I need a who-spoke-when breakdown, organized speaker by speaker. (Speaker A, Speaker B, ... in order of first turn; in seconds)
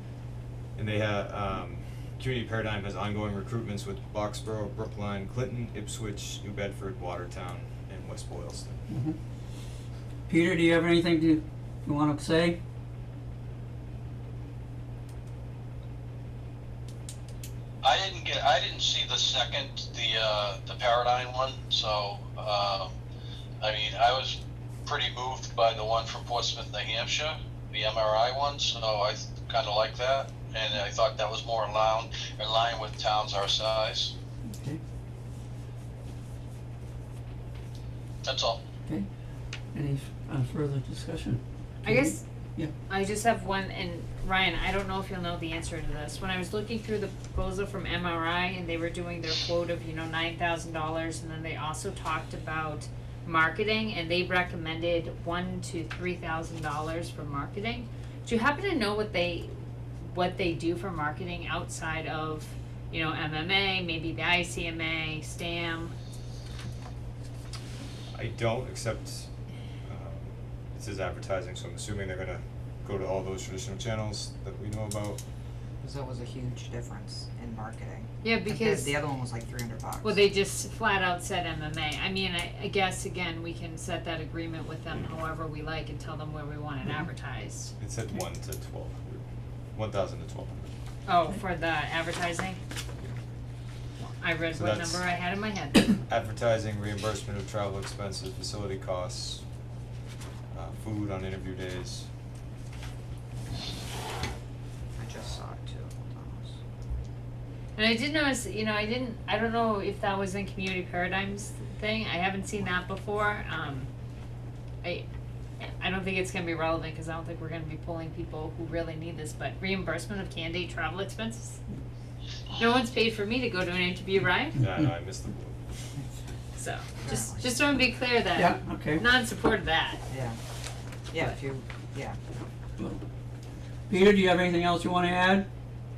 Speaker A: 0.8-8.9, 68.1-69.3, 69.9-75.2, 87.8-90.7, 94.5-95.0, 96.1-99.4, 100.5-102.1, 124.6-125.6
Speaker B: 8.9-9.2, 10.3-12.6, 34.5-34.8, 39.7-42.7, 124.6-124.9, 128.3-129.0, 133.9-135.5
Speaker C: 17.8-22.9, 23.6-34.1, 38.2-38.6
Speaker D: 41.9-42.2, 42.9-65.9, 78.2-79.0, 80.0-87.8, 91.1-92.6, 94.0-96.0, 107.8-113.9, 115.6-121.6, 122.5-124.6, 126.6-130.1
Speaker E: 75.8-80.2, 104.9-106.6, 127.0-127.5, 130.1-130.4, 131.1-132.2